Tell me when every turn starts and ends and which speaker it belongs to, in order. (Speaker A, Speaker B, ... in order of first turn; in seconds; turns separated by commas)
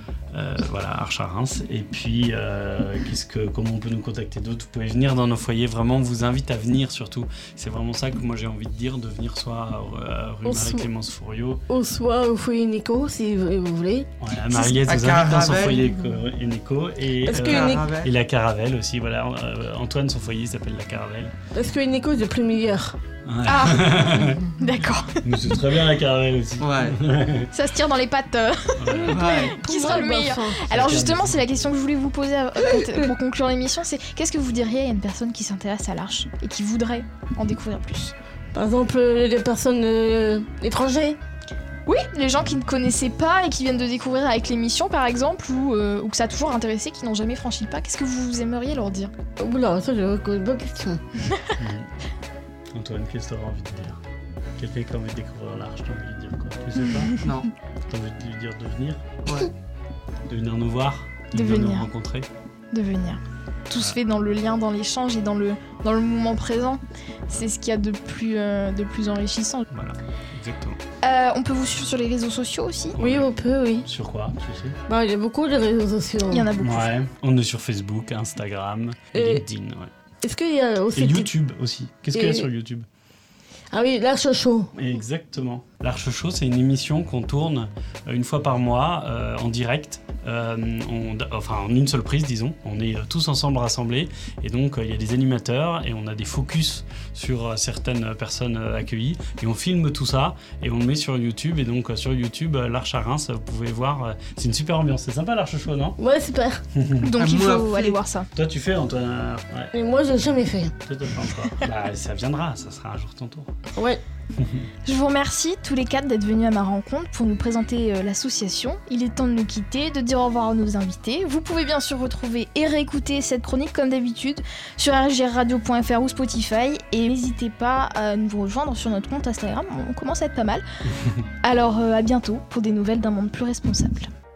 Speaker A: 0.3-11.6, Speaker B: 11.7-14.1, Speaker A: 14.2-21.3, Speaker C: 14.8-15.9, Speaker B: 17.2-17.8, Speaker C: 17.4-18.1, Speaker B: 21.5-22.9, Speaker A: 23.3-24.5, Speaker D: 23.5-25.2, Speaker A: 25.2-27.5, Speaker C: 26.6-27.0, Speaker D: 27.5-38.1, Speaker A: 28.8-29.3, Speaker C: 29.1-29.7, Speaker B: 29.5-30.6, Speaker A: 30.6-31.7, Speaker B: 38.5-41.2, Speaker D: 41.9-49.1, Speaker B: 49.4-51.0, Speaker A: 51.6-51.9, Speaker A: 52.7-54.0, Speaker A: 54.6-57.2, Speaker C: 57.2-57.5, Speaker A: 57.9-59.2, Speaker C: 59.3-59.5, Speaker A: 60.3-62.3, Speaker D: 61.3-61.9, Speaker D: 62.7-69.7, Speaker A: 69.7-70.8, Speaker D: 71.0-73.0, Speaker A: 73.0-73.3, Speaker B: 73.0-73.9, Speaker A: 73.8-74.8, Speaker B: 74.9-76.5, Speaker D: 76.3-76.9, Speaker A: 76.6-79.9, Speaker B: 80.2-81.2, Speaker A: 80.9-82.9, Speaker B: 83.7-84.7, Speaker A: 84.8-106.0, Speaker B: 106.0-106.6, Speaker A: 106.7-107.1, Speaker D: 107.0-108.3, Speaker C: 107.2-108.0, Speaker A: 108.3-109.7, Speaker B: 109.7-110.7, Speaker A: 110.8-113.5, Speaker B: 113.8-114.0, Speaker A: 114.4-114.7, Speaker D: 114.9-130.6, Speaker D: 131.4-134.1